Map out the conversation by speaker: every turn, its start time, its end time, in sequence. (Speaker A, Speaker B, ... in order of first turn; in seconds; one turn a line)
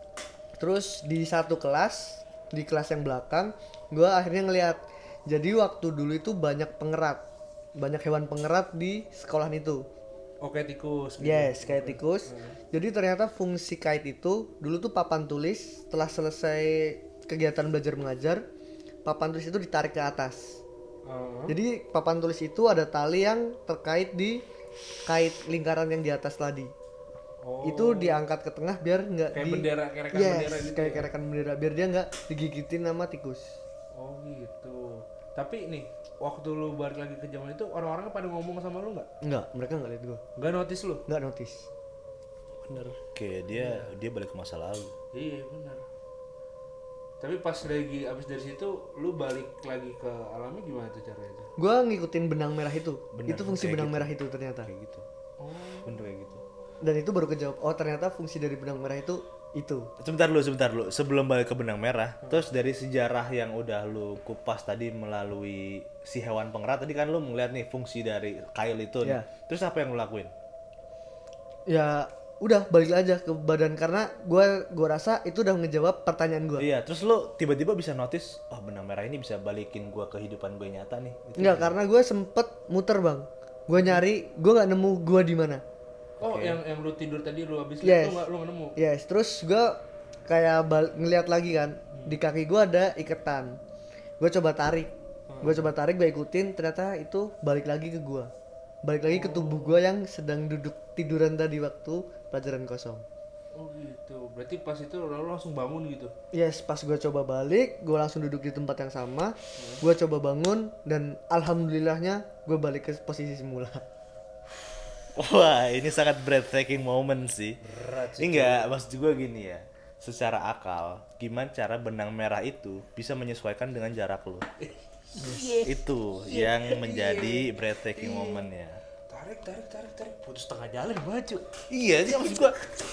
Speaker A: 0.6-7.2
Speaker A: 7.8-9.8
Speaker B: 10.4-12.6
Speaker A: 11.2-18.4
Speaker A: 19.1-20.6
Speaker B: 21.1-21.6
Speaker A: 21.5-24.4
Speaker A: 25.1-26.7
Speaker B: 27.4-28.2
Speaker A: 27.6-33.6
Speaker B: 29.3-31.1
Speaker B: 34.0-39.1
Speaker A: 39.2-40.2
Speaker B: 40.4-41.0
Speaker A: 41.1-41.7
Speaker B: 42.7-43.0
Speaker C: 43.1-45.0
Speaker B: 43.5-43.9
Speaker B: 45.1-45.9
Speaker B: 47.2-51.5
Speaker A: 51.6-54.7
Speaker C: 53.1-54.1
Speaker C: 54.6-55.1
Speaker B: 55.4-56.0
Speaker C: 55.9-56.4
Speaker A: 56.8-59.9
Speaker C: 60.0-70.3
Speaker A: 71.7-76.7
Speaker C: 76.6-81.7
Speaker A: 81.4-85.6
Speaker B: 83.8-84.0
Speaker B: 86.2-88.8
Speaker C: 86.2-86.6
Speaker A: 87.8-93.6
Speaker A: 94.2-98.3
Speaker B: 95.3-95.7
Speaker A: 98.8-103.0
Speaker B: 99.1-99.8
Speaker B: 103.5-106.1
Speaker A: 106.3-113.8
Speaker B: 109.6-109.8
Speaker C: 115.2-117.6
Speaker B: 117.6-118.7
Speaker C: 118.2-124.5
Speaker B: 124.6-128.5
Speaker A: 125.2-125.5
Speaker C: 125.6-128.8
Speaker B: 129.1-131.4
Speaker C: 131.7-132.6
Speaker B: 132.1-132.5